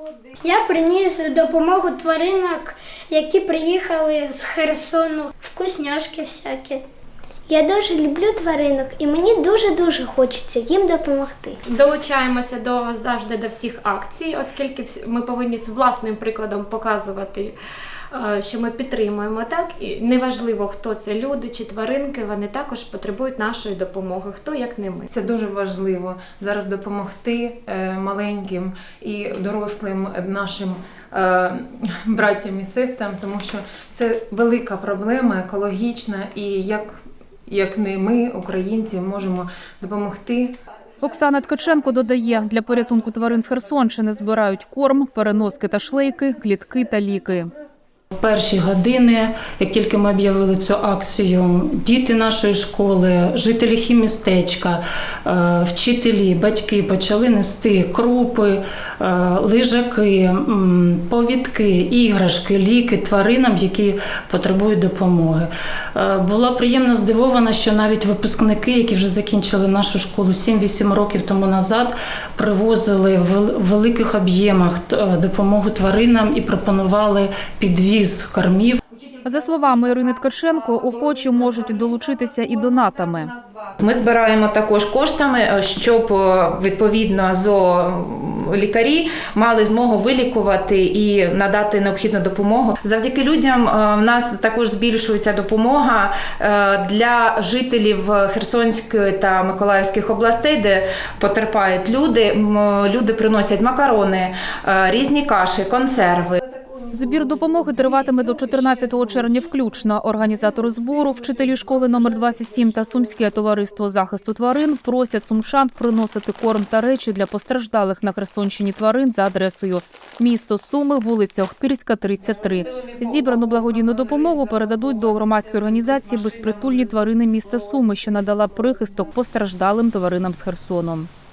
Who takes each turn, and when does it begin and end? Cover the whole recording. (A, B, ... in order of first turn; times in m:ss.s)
0:00.4-0:06.9 A
0:07.5-0:11.6 B
0:11.7-0:17.6 C
0:18.1-0:25.1 C
0:25.2-0:37.0 D
0:37.5-0:40.6 D
0:41.0-0:47.5 E
0:48.2-1:18.8 F
1:19.2-1:23.3 E
1:23.8-1:46.4 G
1:46.9-2:11.1 E